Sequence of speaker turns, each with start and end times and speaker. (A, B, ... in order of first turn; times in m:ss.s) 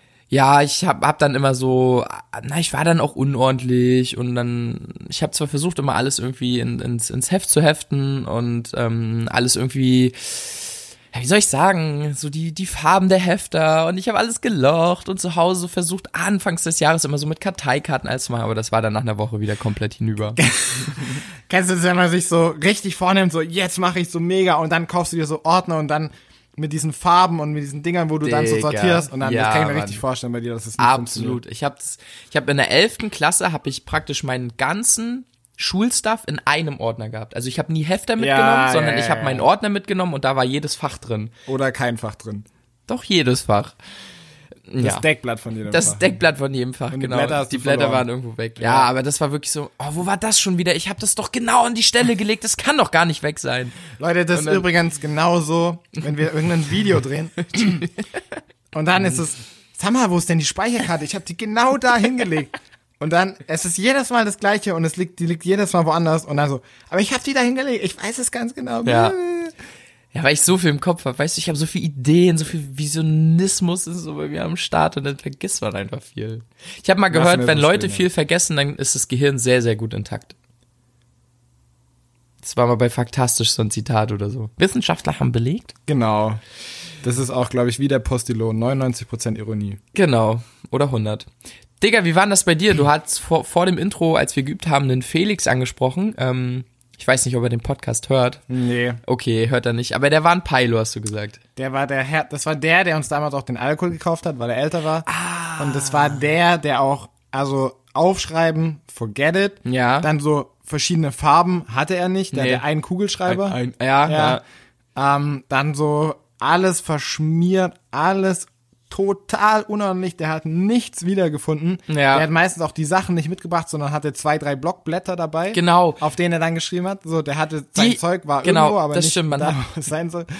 0:00.3-0:20.4 A
0:20.4-0:31.4 B
0:28.2-0:30.0 A
0:30.8-0:41.3 A
0:38.2-0:39.5 B
0:41.5-0:42.4 B
0:42.9-0:43.8 A
0:44.7-0:45.0 A
0:44.8-0:46.1 B
0:45.7-0:53.8 A
0:46.9-0:48.9 B
0:54.0-0:57.9 B
0:54.3-0:54.6 A
0:57.6-0:57.9 A
0:58.7-1:09.5 B
1:08.8-1:09.2 A
1:10.1-1:20.3 A
1:17.1-1:18.0 B
1:22.4-1:25.7 A
1:25.9-1:26.4 B
1:27.0-1:29.8 B
1:29.9-1:31.3 A
1:31.8-1:38.4 A
1:38.5-1:39.0 B
1:39.0-1:41.4 A
1:41.6-1:54.4 B
1:45.0-1:46.3 A
1:49.6-1:50.1 A
1:52.3-1:52.6 A
1:53.2-1:54.4 A
1:55.0-2:10.3 B
2:01.9-2:02.3 A
2:05.5-2:06.0 A
2:07.8-2:09.6 A